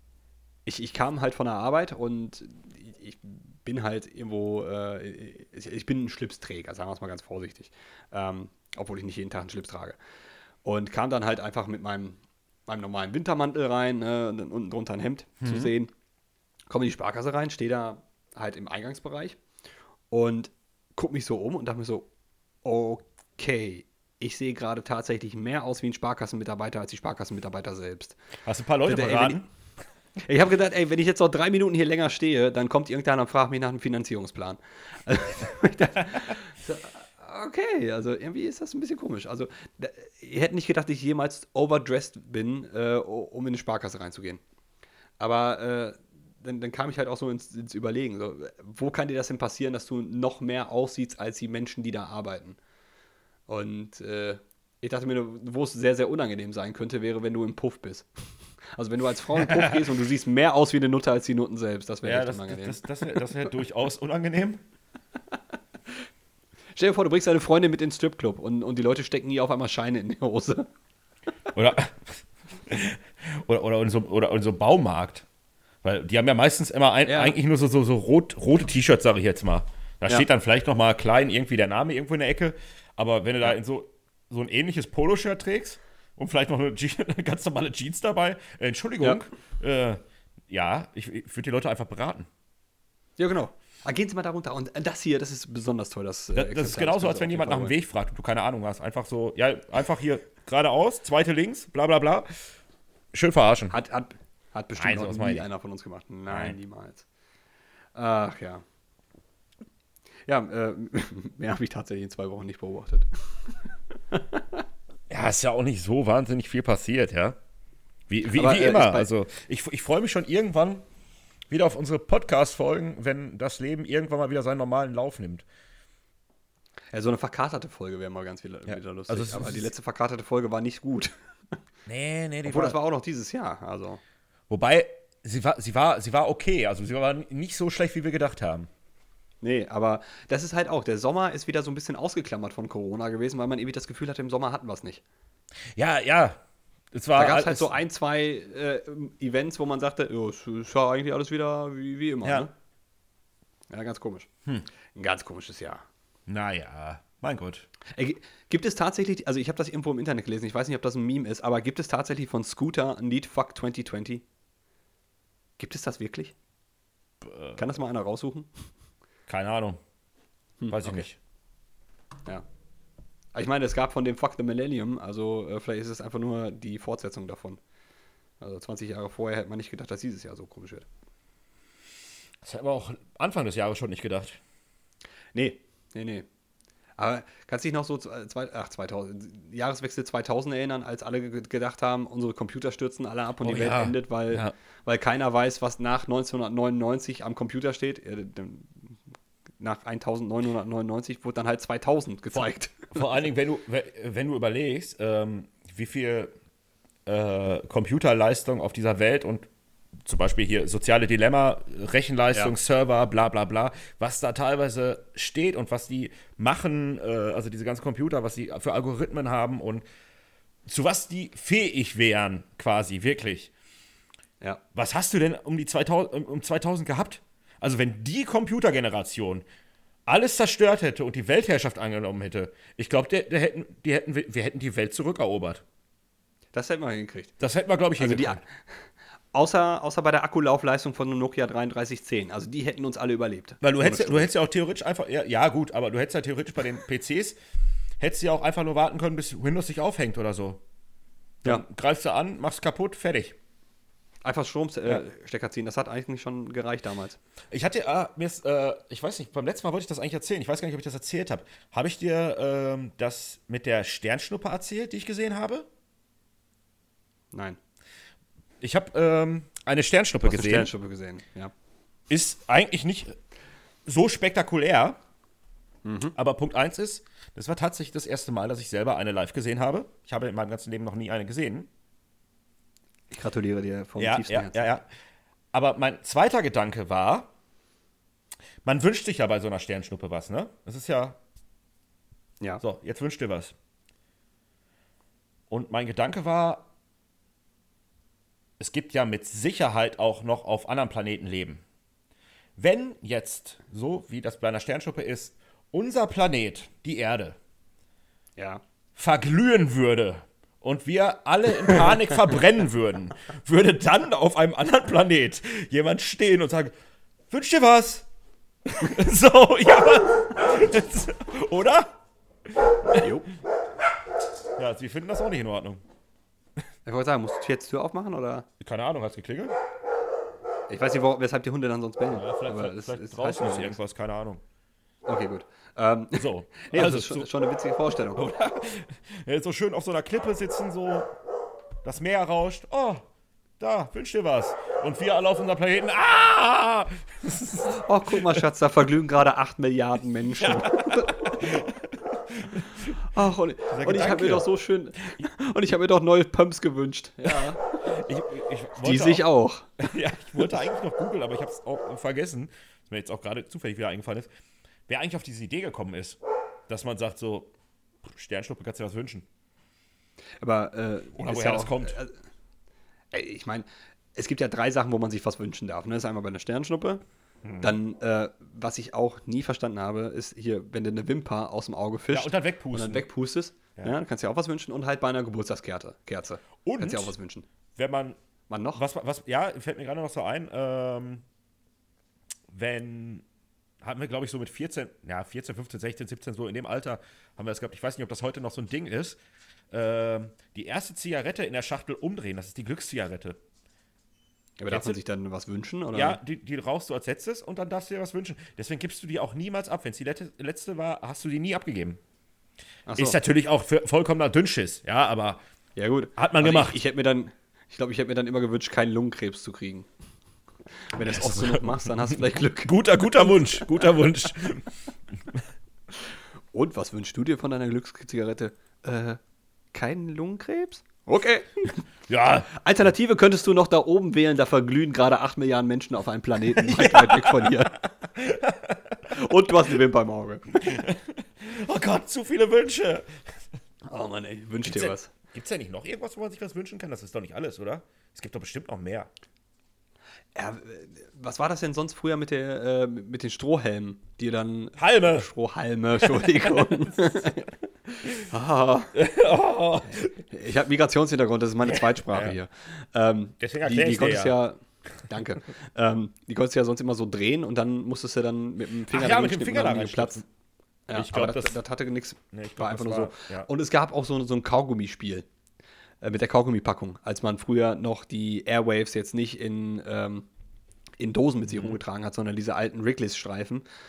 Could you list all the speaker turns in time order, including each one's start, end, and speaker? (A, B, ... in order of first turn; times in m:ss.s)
0:00.7-0:10.0 A
0:10.6-0:15.9 A
0:15.4-0:15.7 B
0:16.7-0:19.4 A
0:20.1-0:22.1 A
0:22.6-0:28.2 A
0:28.4-0:29.5 B
0:28.8-0:29.4 A
0:30.2-0:44.4 A
0:45.2-0:52.6 A
0:53.5-0:58.2 A
0:58.8-1:03.3 A
0:59.4-0:59.8 B
1:02.0-1:04.6 B
1:06.8-1:10.7 A
1:11.5-1:15.2 B
1:15.8-1:32.3 B
1:17.1-1:17.4 A
1:33.2-1:37.7 A
1:36.4-1:42.3 B
1:43.1-1:43.8 B
1:43.7-1:47.0 A
1:44.8-1:45.4 B
1:46.3-1:46.6 B
1:48.0-1:48.6 A
1:50.3-1:53.6 A
1:54.1-1:54.6 A
1:55.1-1:57.4 B
1:58.1-2:00.8 B
1:58.3-1:59.1 A
2:01.5-2:05.4 B
2:06.9-2:11.1 A
2:08.7-2:09.7 B
2:11.9-2:12.8 B
2:12.4-2:14.0 A
2:14.5-2:18.7 B
2:19.4-2:25.0 A
2:25.8-2:26.4 B
2:26.9-2:27.7 B
2:27.2-2:32.5 A
2:33.7-2:34.3 A
2:35.0-2:35.8 A
2:36.3-2:37.7 B
2:38.0-2:44.2 A
2:45.6-2:46.3 A
2:47.2-2:47.6 B
2:47.6-2:48.5 A
2:49.3-2:49.8 B
2:50.6-2:51.1 A
2:50.7-2:51.2 B
2:53.4-2:57.6 A
2:58.4-3:00.9 A
3:02.4-3:04.4 B
3:05.3-3:06.3 A
3:07.0-3:18.8 A
3:13.4-3:14.5 B
3:19.6-3:23.0 A
3:22.3-3:26.3 B
3:27.1-3:29.5 B
3:30.0-3:39.8 B
3:40.7-3:43.5 B
3:44.8-3:49.4 B
3:50.1-3:55.6 B
3:56.5-3:57.4 A
3:57.4-3:58.4 B
3:58.0-3:58.4 A
3:59.3-4:04.3 A
4:03.6-4:07.4 B
4:08.0-4:10.6 B
4:11.4-4:13.4 B
4:14.2-4:17.2 A
4:17.5-4:25.7 B
4:27.3-4:27.6 A
4:28.6-4:30.7 B
4:30.2-4:31.5 A
4:32.1-4:33.2 B
4:33.9-4:35.0 B
4:35.8-4:36.2 A
4:36.2-4:41.7 B
4:43.1-4:44.7 A
4:44.0-4:44.9 B
4:45.5-4:47.3 B
4:48.6-4:51.2 B
4:52.6-4:53.5 B
4:55.5-4:56.7 B
4:58.6-5:01.6 B
5:02.6-5:07.4 B
5:08.4-5:08.6 A
5:09.0-5:16.7 B
5:17.3-5:18.0 B
5:18.7-5:21.9 B
5:22.5-5:23.1 B
5:22.9-5:23.3 A
5:24.6-5:25.8 B
5:26.8-5:28.5 A
5:28.6-5:29.5 B
5:30.7-5:33.8 A
5:32.1-5:34.4 B
5:35.1-5:38.2 A
5:36.2-5:37.3 B
5:38.2-5:41.1 B
5:41.8-5:43.0 B
5:43.6-5:48.4 B
5:47.7-5:51.6 A
5:50.4-5:53.0 B
5:53.0-5:58.0 A
5:53.7-5:54.5 B
5:57.3-5:59.3 B
5:58.8-5:59.9 A
5:59.8-6:04.3 B
6:04.9-6:07.5 B
6:08.0-6:09.3 B
6:10.4-6:12.1 A
6:11.2-6:12.0 B
6:13.1-6:17.0 A
6:17.4-6:17.7 B
6:17.6-6:27.5 A
6:22.1-6:23.1 B
6:26.6-6:27.1 B
6:27.8-6:28.2 B
6:28.5-6:28.8 A
6:28.8-6:31.2 B
6:32.5-6:33.2 B
6:33.8-6:39.2 B
6:39.7-6:43.4 B
6:44.6-6:46.2 A
6:44.7-6:45.0 B
6:45.9-6:52.0 B
6:52.9-6:53.2 A
6:53.0-6:55.4 B
6:55.8-6:59.9 A
6:56.2-6:56.8 B
7:00.9-7:04.0 A
7:01.1-7:04.7 B
7:06.5-7:09.2 A
7:09.7-7:11.8 A
7:12.1-7:12.5 B
7:12.5-7:17.8 A
7:16.6-7:19.1 B
7:19.1-7:20.6 A
7:20.6-7:23.2 B
7:23.9-7:25.1 A
7:24.7-7:29.1 B
7:30.4-7:38.9 A
7:34.8-7:35.2 B
7:36.0-7:36.9 B
7:39.0-7:40.2 B
7:40.2-7:50.2 A
7:41.7-7:42.4 B
7:43.4-7:44.4 B
7:48.9-7:50.2 B
7:50.9-7:55.3 A
7:50.9-7:51.6 B
7:52.3-7:53.5 B
7:56.0-8:00.3 A
8:01.0-8:03.6 A
8:01.5-8:01.8 B